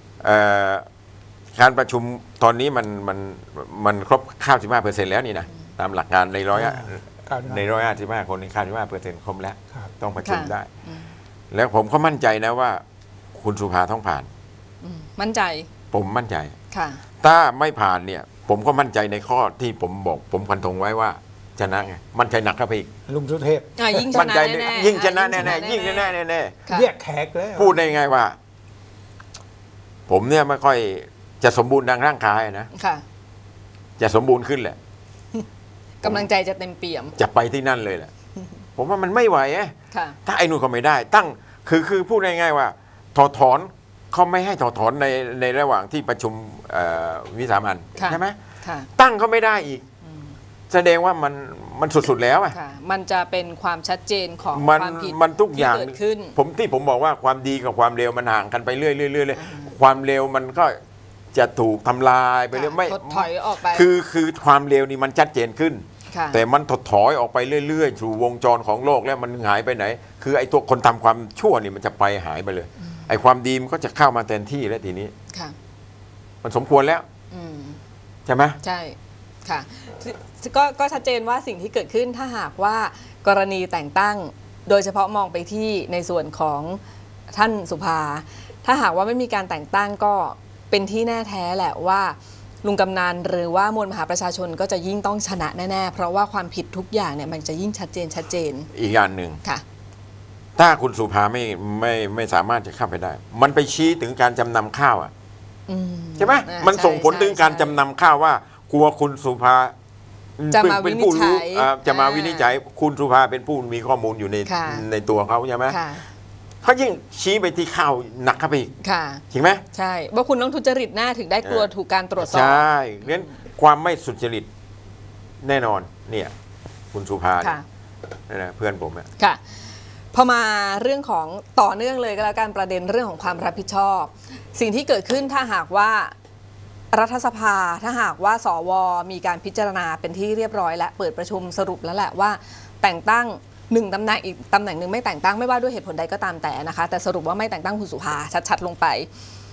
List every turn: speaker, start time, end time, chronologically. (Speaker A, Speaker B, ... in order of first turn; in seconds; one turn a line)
Speaker A: 0.2-0.8
Speaker A: 1.5-10.7
Speaker B: 6.5-7.6
Speaker C: 10.2-11.1
Speaker A: 11.5-12.8
Speaker A: 13.3-14.3
Speaker C: 14.8-15.7
Speaker A: 15.9-16.5
Speaker C: 16.7-17.0
Speaker A: 17.2-22.9
Speaker B: 23.1-24.3
Speaker C: 23.8-26.1
Speaker A: 24.1-26.6
Speaker B: 26.7-27.8
Speaker A: 27.5-28.4
Speaker A: 30.1-32.7
Speaker C: 32.7-33.0
Speaker A: 34.0-34.8
Speaker C: 36.0-37.2
Speaker A: 37.2-38.1
Speaker A: 38.8-48.4
Speaker C: 39.9-40.2
Speaker C: 48.0-48.9
Speaker A: 49.0-49.8
Speaker A: 50.7-52.6
Speaker C: 52.5-56.4
Speaker A: 54.5-60.8
Speaker C: 59.3-59.7
Speaker A: 61.3-75.1
Speaker C: 62.5-63.9
Speaker C: 66.1-66.4
Speaker A: 76.4-77.0
Speaker C: 77.3-77.8
Speaker A: 78.3-78.6
Speaker C: 78.6-98.7
Speaker A: 98.7-99.4
Speaker A: 100.6-105.1
Speaker C: 105.7-107.8
Speaker A: 106.2-109.8
Speaker A: 110.4-115.8
Speaker C: 110.5-112.5
Speaker C: 114.5-114.9
Speaker C: 115.7-116.1
Speaker A: 116.6-118.8
Speaker C: 118.8-123.2
Speaker A: 119.3-119.6
Speaker A: 121.4-124.5
Speaker A: 125.4-126.3
Speaker A: 126.9-127.6
Speaker A: 128.3-129.1
Speaker C: 129.2-136.1
Speaker C: 136.9-149.1